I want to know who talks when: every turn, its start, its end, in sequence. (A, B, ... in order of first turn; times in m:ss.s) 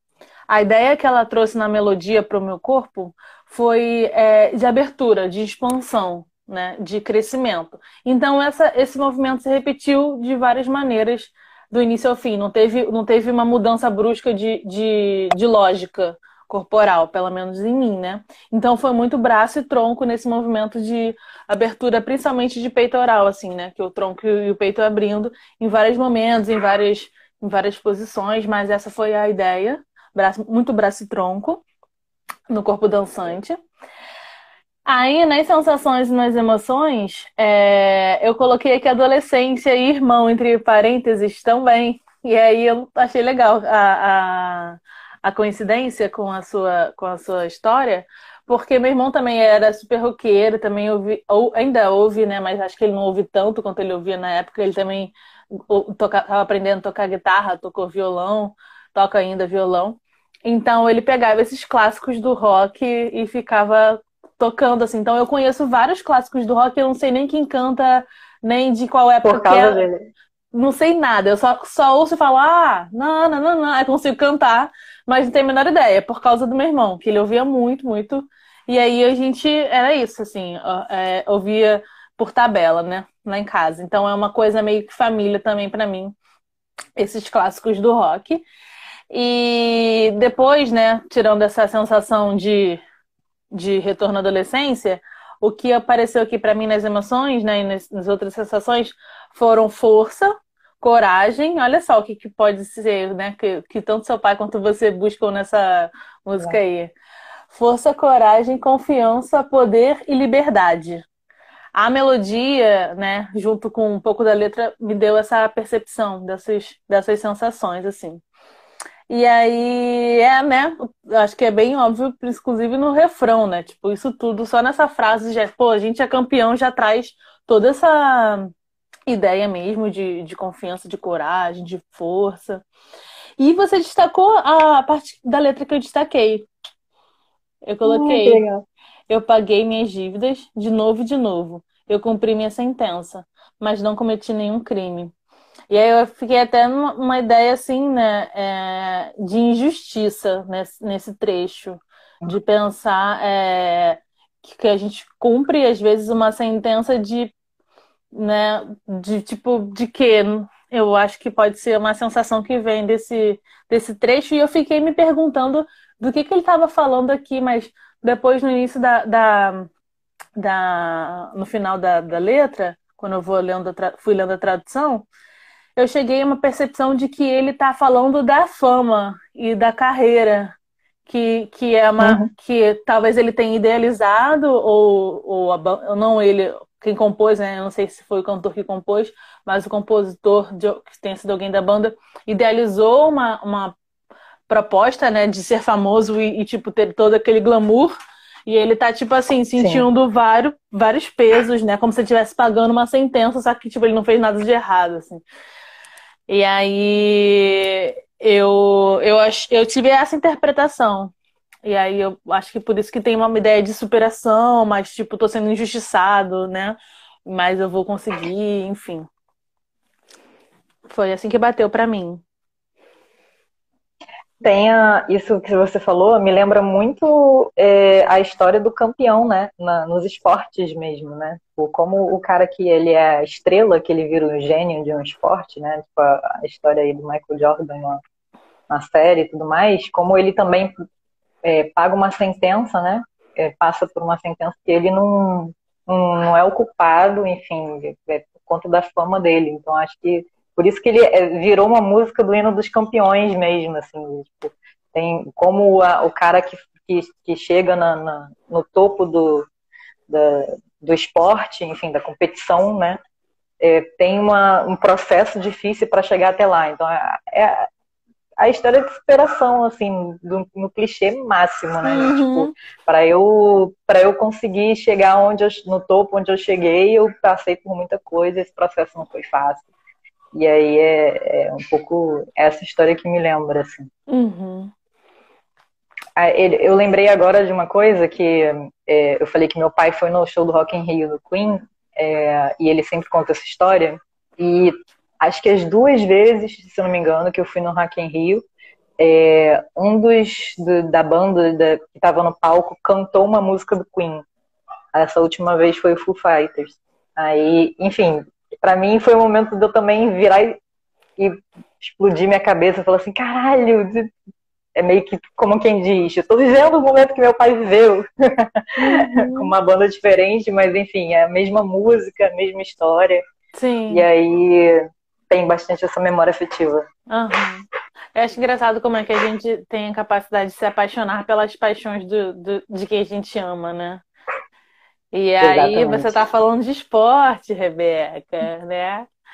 0:00.5-0:31.6 A
0:32.5-0:33.6 A
0:34.8-1:09.8 A
1:09.2-1:10.1 B
1:10.5-1:26.1 A
1:27.0-1:28.4 A
1:29.1-1:32.8 A
1:33.5-1:46.9 A
1:47.5-1:51.0 A
1:51.7-1:58.2 A
1:59.1-2:08.5 A
2:09.1-2:12.6 A
2:13.4-2:16.5 A
2:17.6-2:18.4 A
2:17.8-2:18.6 B
2:19.1-2:25.1 A
2:25.7-2:37.3 A
2:38.1-2:49.7 A
2:50.4-2:55.0 A
2:55.8-3:00.5 A
3:01.1-3:13.7 A
3:02.0-3:02.3 B
3:14.5-3:17.9 A
3:18.5-3:25.2 A
3:19.6-3:19.8 B
3:26.3-3:31.1 A
3:31.6-3:39.1 A
3:40.9-3:42.2 A
3:44.4-3:58.0 B
3:58.7-4:00.7 B
4:01.4-4:19.5 B
4:20.1-4:23.0 B
4:23.6-4:27.7 B
4:28.4-4:39.7 B
4:31.8-4:32.5 A
4:40.3-4:43.9 B
4:44.1-4:44.7 A
4:46.2-4:58.4 B
4:59.0-5:04.2 B
5:04.9-5:10.6 B
5:11.2-5:14.1 B
5:14.8-5:23.2 B
5:18.8-5:19.5 A
5:23.5-5:24.0 A
5:23.9-5:26.8 B
5:27.1-5:34.0 A
5:35.1-5:39.0 A
5:35.4-5:36.1 B